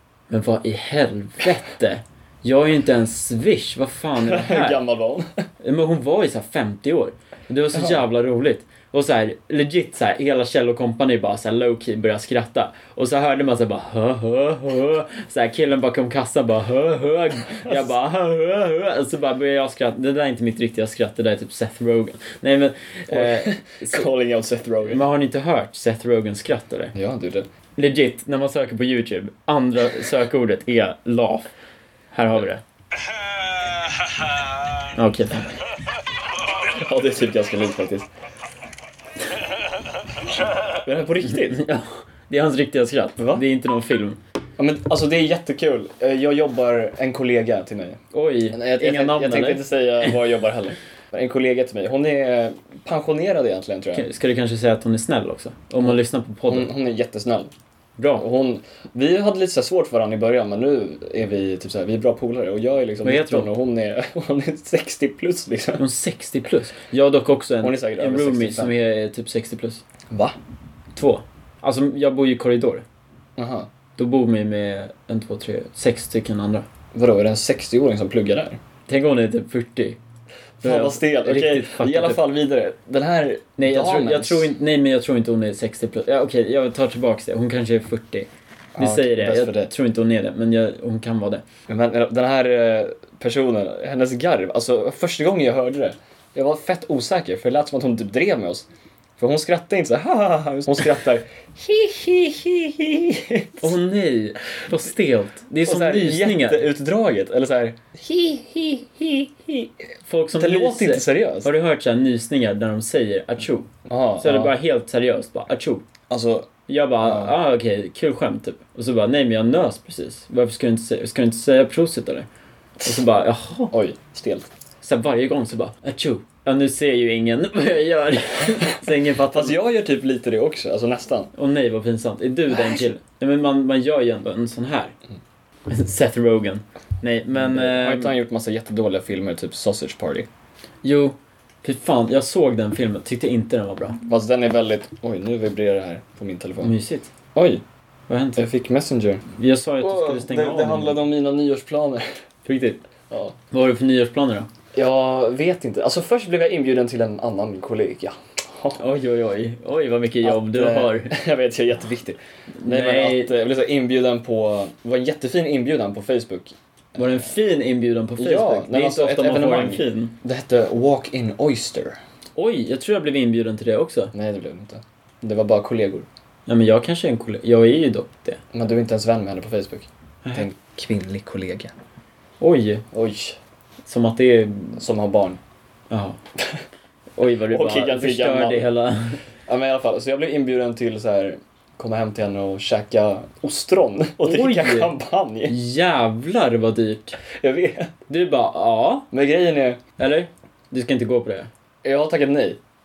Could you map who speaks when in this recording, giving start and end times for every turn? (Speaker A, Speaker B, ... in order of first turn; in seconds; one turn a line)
Speaker A: 0.3-4.8
Speaker B: 4.2-5.4
Speaker A: 5.6-24.1
Speaker B: 7.7-8.0
Speaker B: 17.6-17.9
Speaker B: 23.1-25.0
Speaker A: 24.8-26.9
Speaker B: 26.9-27.5
Speaker A: 27.8-31.5
Speaker A: 32.1-32.6
Speaker A: 35.0-35.5
Speaker B: 36.6-38.1
Speaker B: 40.6-41.6
Speaker A: 41.2-44.2
Speaker B: 43.2-43.4
Speaker B: 44.6-54.0
Speaker A: 48.1-50.1
Speaker A: 53.9-56.7
Speaker B: 56.5-57.5
Speaker A: 58.0-58.2
Speaker B: 58.1-65.8
Speaker A: 63.0-63.5
Speaker A: 65.8-69.8
Speaker B: 67.6-68.7
Speaker B: 70.1-70.3
Speaker A: 70.9-72.8
Speaker B: 73.4-73.7
Speaker A: 74.0-76.7
Speaker B: 76.9-78.6
Speaker A: 78.9-80.0
Speaker A: 80.6-82.2
Speaker B: 80.6-84.5
Speaker A: 83.6-91.4
Speaker B: 88.8-89.7
Speaker B: 91.7-98.7
Speaker B: 99.2-103.7
Speaker A: 103.6-106.6
Speaker B: 105.6-109.7
Speaker A: 110.0-115.8
Speaker B: 110.4-111.5
Speaker B: 113.9-114.5
Speaker B: 116.1-116.5
Speaker A: 116.7-122.3
Speaker B: 117.0-117.3
Speaker A: 122.8-123.7
Speaker B: 123.7-124.5
Speaker A: 124.8-129.6
Speaker B: 129.3-131.3
Speaker A: 131.3-134.9
Speaker B: 132.5-132.9
Speaker A: 135.7-138.1
Speaker B: 137.3-140.3
Speaker A: 140.8-144.0
Speaker B: 144.1-146.7
Speaker A: 146.6-147.1
Speaker B: 147.3-147.6
Speaker A: 148.1-148.4
Speaker B: 148.4-149.2
Speaker A: 149.3-151.0
Speaker B: 149.8-152.0
Speaker A: 152.4-152.8
Speaker B: 153.1-153.3
Speaker A: 153.5-154.5
Speaker B: 154.7-158.8
Speaker A: 158.8-161.1
Speaker B: 160.2-167.2
Speaker A: 162.6-163.3
Speaker A: 166.9-170.1
Speaker B: 168.2-172.0
Speaker A: 172.3-174.1
Speaker B: 174.1-176.1
Speaker A: 176.4-178.4
Speaker B: 178.5-181.7
Speaker A: 182.4-182.8
Speaker B: 182.9-183.4
Speaker A: 183.8-184.8
Speaker B: 184.8-185.4
Speaker A: 185.9-186.2
Speaker A: 187.2-189.2
Speaker B: 187.5-188.7
Speaker B: 189.5-195.5
Speaker A: 194.2-194.9
Speaker A: 195.5-197.2
Speaker B: 197.3-197.9
Speaker A: 198.1-199.1
Speaker B: 199.1-199.8
Speaker A: 200.0-201.5
Speaker B: 201.8-202.6